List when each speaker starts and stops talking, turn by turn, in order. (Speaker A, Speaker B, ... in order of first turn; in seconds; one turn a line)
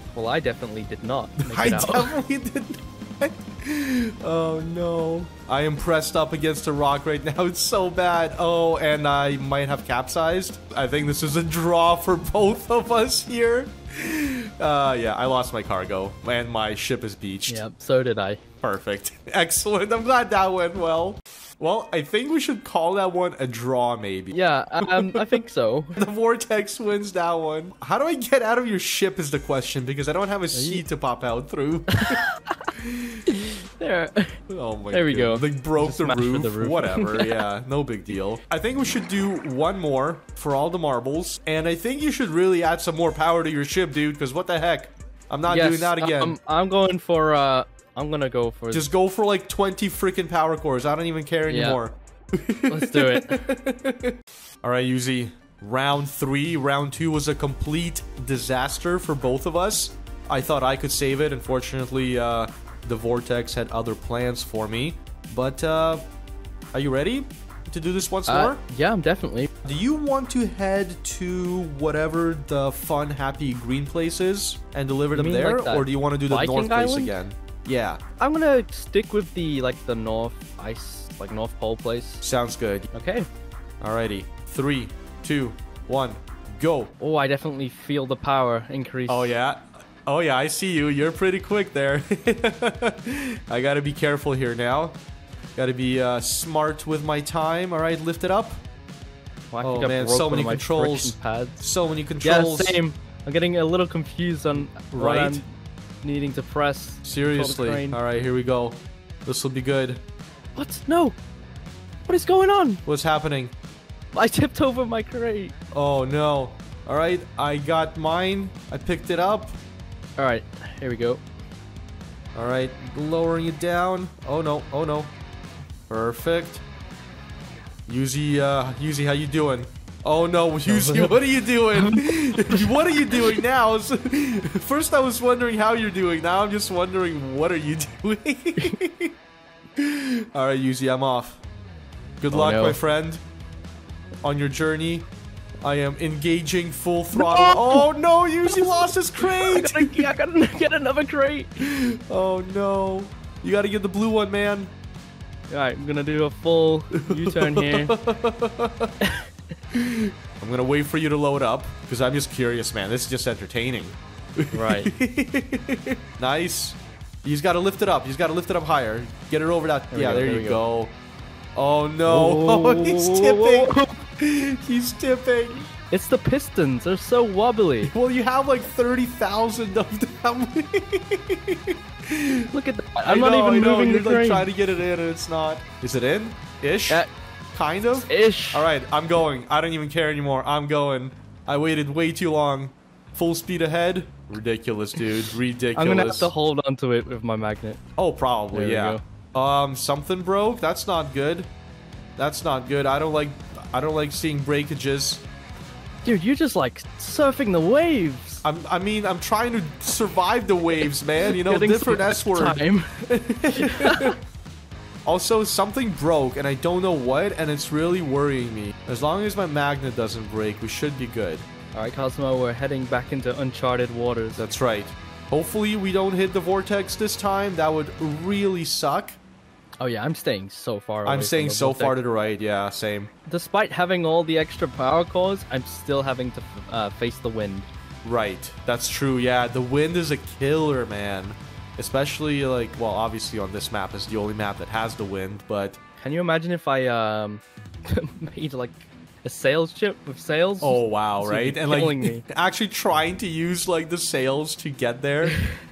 Speaker A: 0.1-2.2
Speaker B: 1.4-17.6
Speaker A: 17.5-18.4
Speaker B: 18.6-25.4
Speaker A: 24.3-26.0
Speaker B: 25.9-32.2
Speaker A: 30.5-30.8
Speaker A: 31.9-32.6
Speaker B: 32.8-33.2
Speaker A: 33.3-34.4
Speaker B: 34.5-46.3
Speaker A: 34.9-37.4
Speaker A: 45.5-48.9
Speaker B: 48.7-66.0
Speaker A: 51.5-51.8
Speaker A: 52.7-53.4
Speaker B: 66.7-68.6
Speaker A: 68.3-69.5
Speaker B: 69.6-78.0
Speaker A: 75.1-77.2
Speaker A: 78.2-82.2
Speaker B: 82.2-82.9
Speaker A: 82.9-83.3
Speaker B: 83.8-86.9
Speaker A: 87.0-89.3
Speaker B: 89.1-95.0
Speaker B: 95.5-98.6
Speaker A: 99.5-101.6
Speaker B: 99.6-102.8
Speaker A: 102.2-105.4
Speaker B: 104.9-105.4
Speaker A: 106.0-108.0
Speaker B: 107.0-110.0
Speaker A: 110.5-111.2
Speaker A: 112.0-112.8
Speaker B: 112.8-113.5
Speaker A: 114.1-115.5
Speaker B: 115.7-119.5
Speaker A: 120.2-121.2
Speaker B: 122.3-125.1
Speaker B: 125.9-126.6
Speaker B: 127.9-139.1
Speaker A: 130.7-131.2
Speaker A: 131.7-133.4
Speaker B: 139.8-141.4
Speaker B: 142.2-143.2
Speaker A: 142.3-142.8
Speaker B: 144.2-145.1
Speaker B: 145.6-150.1
Speaker A: 147.1-147.9
Speaker A: 148.5-151.5
Speaker B: 151.6-154.7
Speaker A: 155.5-157.9
Speaker B: 156.9-158.9
Speaker A: 159.0-159.3
Speaker B: 159.7-170.9
Speaker A: 164.5-164.9
Speaker A: 169.9-170.6
Speaker B: 171.6-175.6
Speaker A: 172.1-173.9
Speaker A: 175.9-177.9
Speaker B: 177.8-182.5
Speaker A: 182.5-184.5
Speaker B: 183.0-196.3
Speaker A: 188.0-188.6
Speaker A: 195.8-197.8
Speaker B: 198.0-201.5
Speaker A: 198.5-199.0
Speaker B: 202.2-205.2
Speaker A: 206.0-208.4
Speaker B: 208.4-214.2
Speaker A: 211.3-213.0
Speaker A: 213.5-214.2
Speaker B: 215.1-221.5
Speaker A: 221.7-224.4
Speaker B: 224.4-229.2
Speaker A: 229.8-232.0
Speaker B: 231.0-233.1
Speaker A: 233.3-237.7
Speaker B: 238.0-245.8
Speaker A: 246.0-252.2
Speaker B: 250.6-255.4
Speaker A: 255.3-255.5